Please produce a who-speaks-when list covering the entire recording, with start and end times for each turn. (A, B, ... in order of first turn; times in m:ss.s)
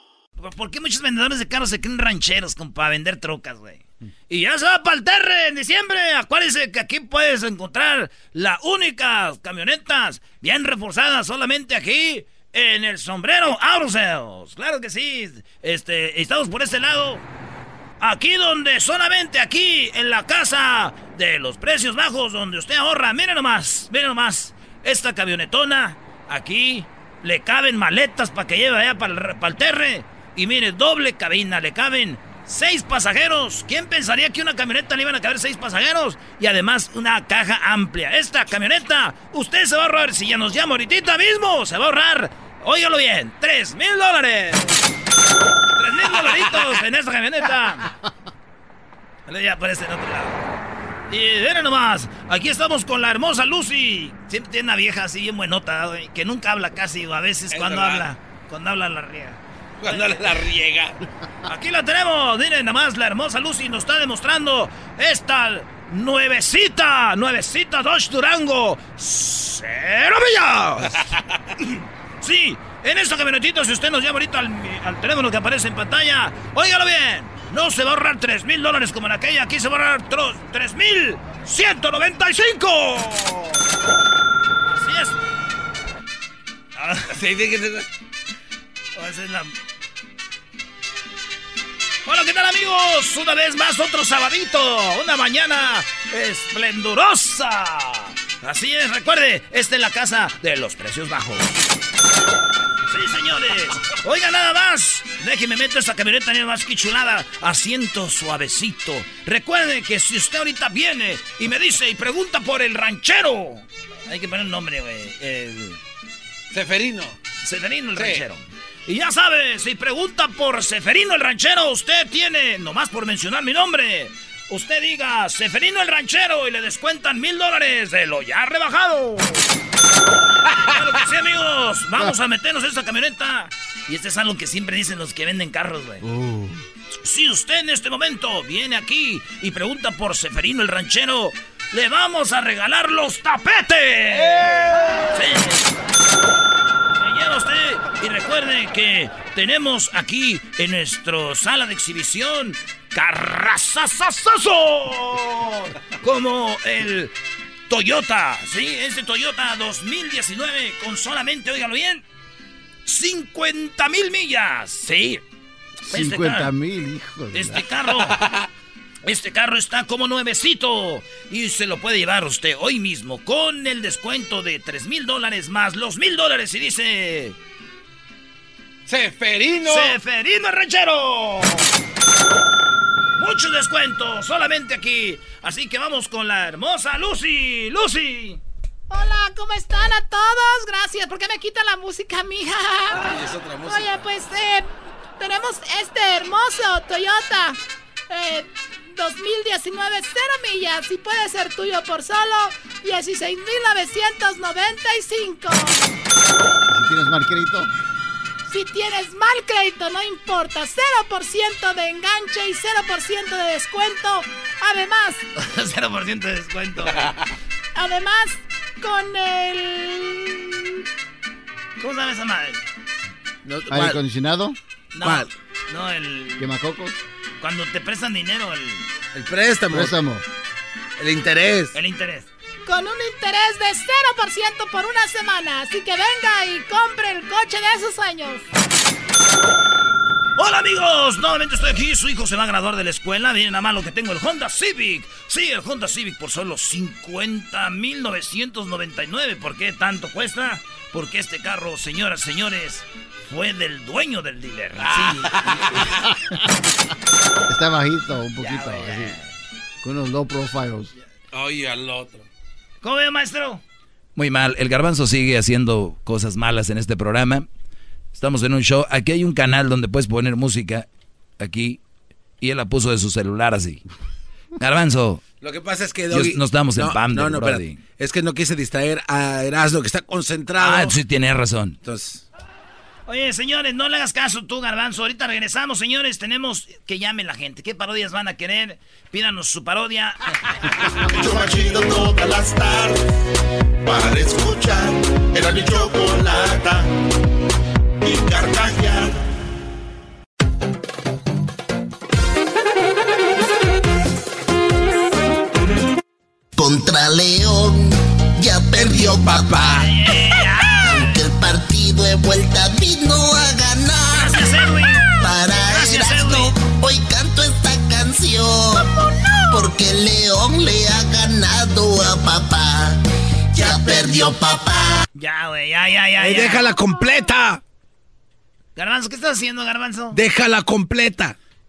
0:00.4-0:17.2 A
0:18.0-0:44.7 A
0:45.8-0:47.9 A
0:49.3-0:50.4 A
0:51.1-1:00.4 A
0:57.5-0:58.0 B
0:59.8-1:01.0 B
1:01.5-1:10.9 A
1:12.2-1:23.6 A
1:24.7-1:25.2 A
1:26.8-1:27.1 A
1:27.1-1:27.8 B
1:28.9-1:29.5 A
1:32.0-1:41.5 A
1:42.9-1:55.8 A
1:56.5-1:57.2 B
1:57.4-2:09.4 A
1:58.0-1:58.2 B
2:10.6-2:16.0 A
2:16.0-2:16.6 C
2:17.0-2:25.6 A
2:24.4-2:25.0 B
2:27.0-2:37.1 A
2:37.7-2:42.0 A
2:42.8-2:45.2 A
2:45.9-2:47.6 C
2:45.9-2:46.5 A
2:47.3-2:48.2 A
2:49.0-2:57.4 A
2:58.8-3:00.0 B
2:59.7-3:01.6 A
3:03.2-3:08.4 A
3:08.9-3:12.8 D
3:12.9-3:14.0 B
3:13.8-3:14.6 D
3:15.2-3:17.5 D
3:18.1-3:18.4 D
3:19.0-3:25.8 D
3:26.7-3:27.7 C
3:28.5-3:35.2 D
3:35.4-3:37.1 A
3:37.8-3:40.3 D
3:41.8-3:42.6 A
3:43.4-3:44.0 B
3:43.7-3:44.6 C
3:44.9-3:46.5 A
3:45.0-3:45.3 B
3:46.4-3:47.0 C
3:47.4-3:48.9 A
3:49.1-3:49.9 B
3:49.7-3:50.2 C
3:51.0-3:51.7 B
3:51.7-3:52.3 A
3:52.7-3:58.4 D
4:00.4-4:15.4 A
4:14.8-4:15.8 B
4:17.5-4:19.2 C
4:18.4-4:19.3 A
4:19.8-4:20.9 C
4:21.3-4:22.2 B
4:22.8-4:23.6 A
4:24.2-4:27.5 E
4:28.1-4:30.9 E
4:31.4-4:31.8 E
4:32.4-4:33.8 E
4:34.6-4:35.2 E
4:35.4-4:41.0 B
4:36.1-4:37.8 E
4:40.6-4:41.8 E
4:41.8-4:42.2 B
4:43.1-4:50.2 A
4:51.1-4:53.0 F
4:53.8-4:56.9 F
4:58.0-4:59.2 F
5:06.6-5:09.8 G
5:08.7-5:09.9 B
5:09.7-5:11.2 A
5:10.8-5:23.0 G
5:14.1-5:16.6 A
5:23.5-5:25.0 G
5:25.1-5:26.7 A
5:26.2-5:27.6 B
5:28.8-5:30.2 A
5:30.1-5:31.4 B